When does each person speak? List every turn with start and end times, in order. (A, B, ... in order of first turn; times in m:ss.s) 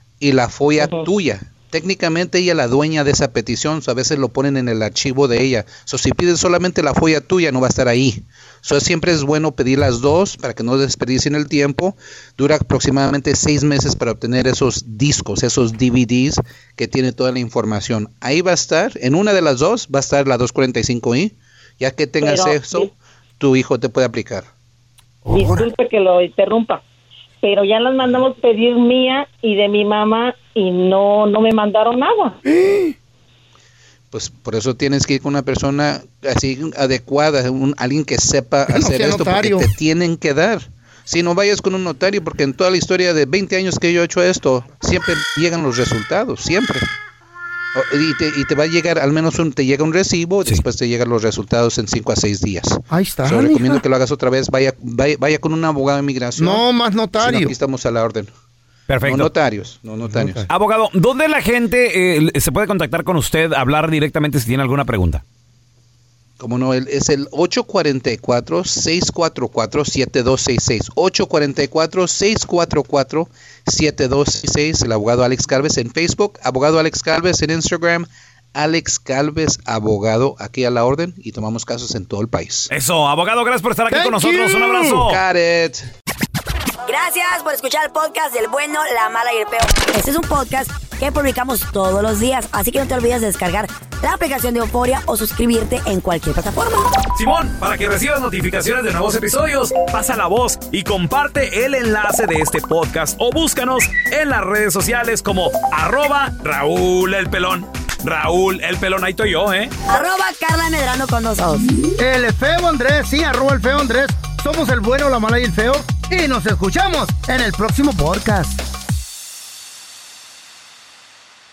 0:00.2-0:24.5 A
0:00.8-0:01.1 B
0:22.2-0:22.9 B
0:25.2-0:25.7 C
0:25.3-0:26.8 B
0:27.4-0:32.4 B
0:32.4-0:32.9 C
0:34.1-0:46.8 A
0:38.7-0:39.7 C
0:47.7-0:56.6 A
0:52.9-0:53.8 C
0:56.4-0:57.6 C
0:57.2-0:58.3 A
0:58.9-0:59.3 D
0:59.0-1:00.4 A
1:00.1-1:00.5 C
1:00.5-1:05.2 D
1:06.4-1:22.7 A
1:22.7-1:25.2 D
1:23.9-1:25.1 C
1:25.0-1:25.8 A
1:26.9-1:36.9 E
1:37.1-1:49.7 D
1:49.9-1:51.7 E
1:52.0-1:58.6 C